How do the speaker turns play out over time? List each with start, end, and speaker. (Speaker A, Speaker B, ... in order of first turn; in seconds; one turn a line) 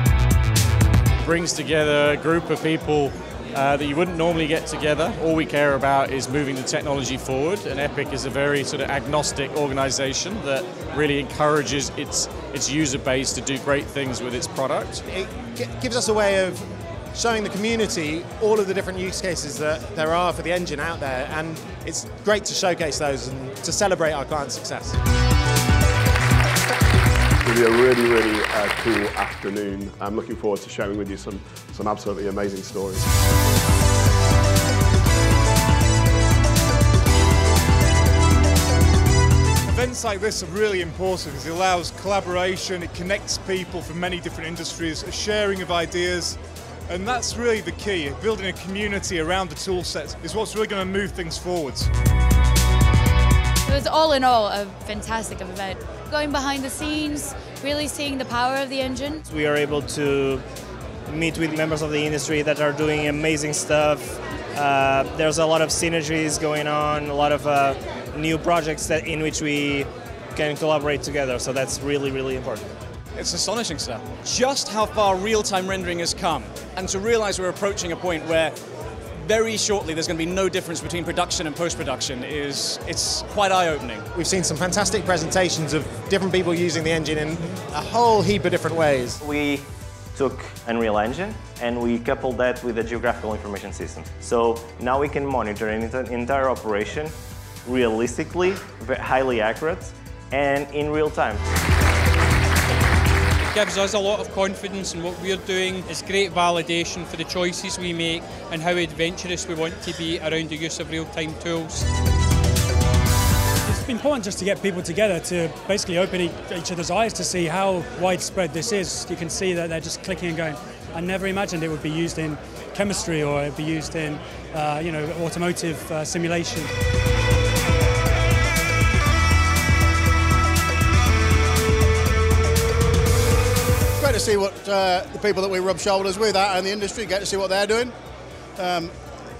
Speaker A: 1.2-15.0
Speaker B: 15.1-25.0
Speaker C: 27.4-33.1
Speaker D: 39.7-46.4
Speaker D: 46.9-51.9
Speaker E: 53.7-59.2
Speaker F: 59.3-60.4
Speaker F: 61.1-72.7
Speaker G: 73.2-78.6
Speaker G: 79.2-84.1
Speaker B: 84.1-89.2
Speaker H: 89.2-97.1
Speaker H: 97.7-101.4
Speaker I: 103.5-111.9
Speaker J: 113.7-126.7
Speaker K: 134.0-137.9
Speaker K: 138.6-138.9